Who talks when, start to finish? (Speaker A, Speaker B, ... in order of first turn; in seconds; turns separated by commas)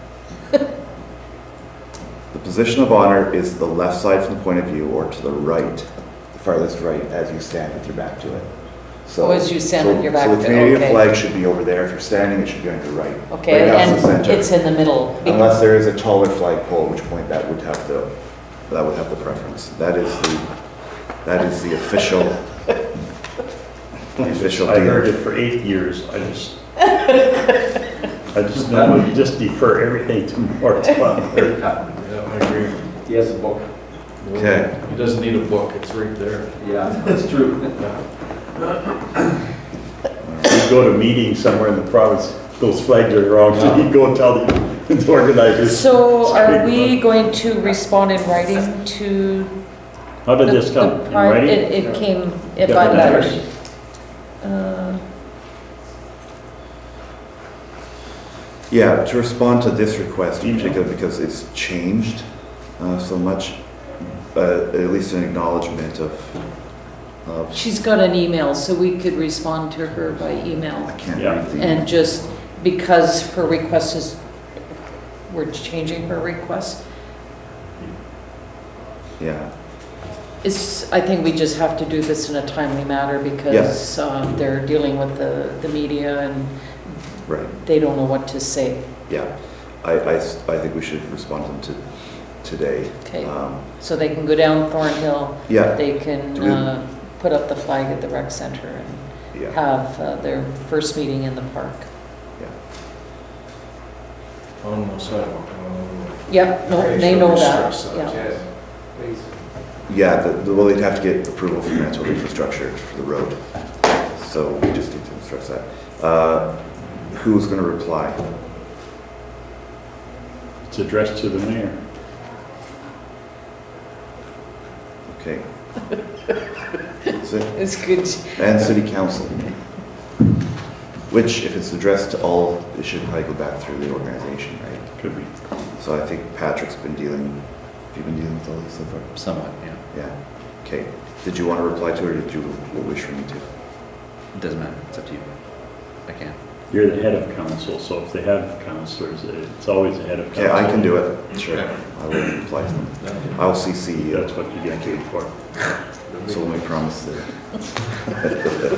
Speaker A: 2.3-22.4, Speaker B: 9.2-11.1, Speaker B: 13.3-15.6, Speaker A: 24.2-25.1, Speaker C: 24.2-26.6, Speaker C: 28.3-31.5, Speaker D: 31.4-32.0, Speaker E: 31.9-32.9, Speaker D: 33.0-33.7, Speaker E: 34.2-36.6, Speaker A: 34.3-34.7, Speaker D: 36.6-37.8, Speaker E: 37.8-38.0, Speaker A: 40.2-40.5, Speaker C: 40.4-47.0, Speaker D: 43.5-43.8, Speaker B: 45.6-49.6, Speaker C: 50.2-51.7, Speaker B: 50.4-55.0, Speaker D: 51.7-52.1, Speaker C: 52.6-53.4, Speaker D: 52.8-53.4, Speaker A: 58.7-67.6, Speaker C: 60.4-60.8, Speaker B: 67.5-74.4, Speaker A: 70.8-71.9, Speaker B: 75.3-76.8, Speaker A: 79.2-79.5, Speaker B: 80.4-89.0, Speaker A: 83.5-83.7, Speaker A: 87.3-87.5, Speaker A: 89.1-93.7, Speaker B: 93.0-101.9, Speaker A: 95.5-96.7, Speaker E: 104.6-108.4, Speaker B: 106.3-108.2, Speaker D: 108.1-108.4, Speaker D: 108.9-109.3, Speaker A: 109.9-118.3, Speaker C: 120.6-121.8, Speaker A: 125.0-125.5, Speaker A: 127.2-129.6, Speaker B: 127.5-128.4, Speaker A: 131.1-139.4, Speaker C: 135.0-135.3, Speaker F: 139.2-139.8, Speaker A: 139.9-143.5, Speaker F: 144.3-146.4, Speaker C: 146.7-151.0, Speaker A: 150.3-154.3, Speaker C: 154.0-155.3, Speaker A: 156.2-158.6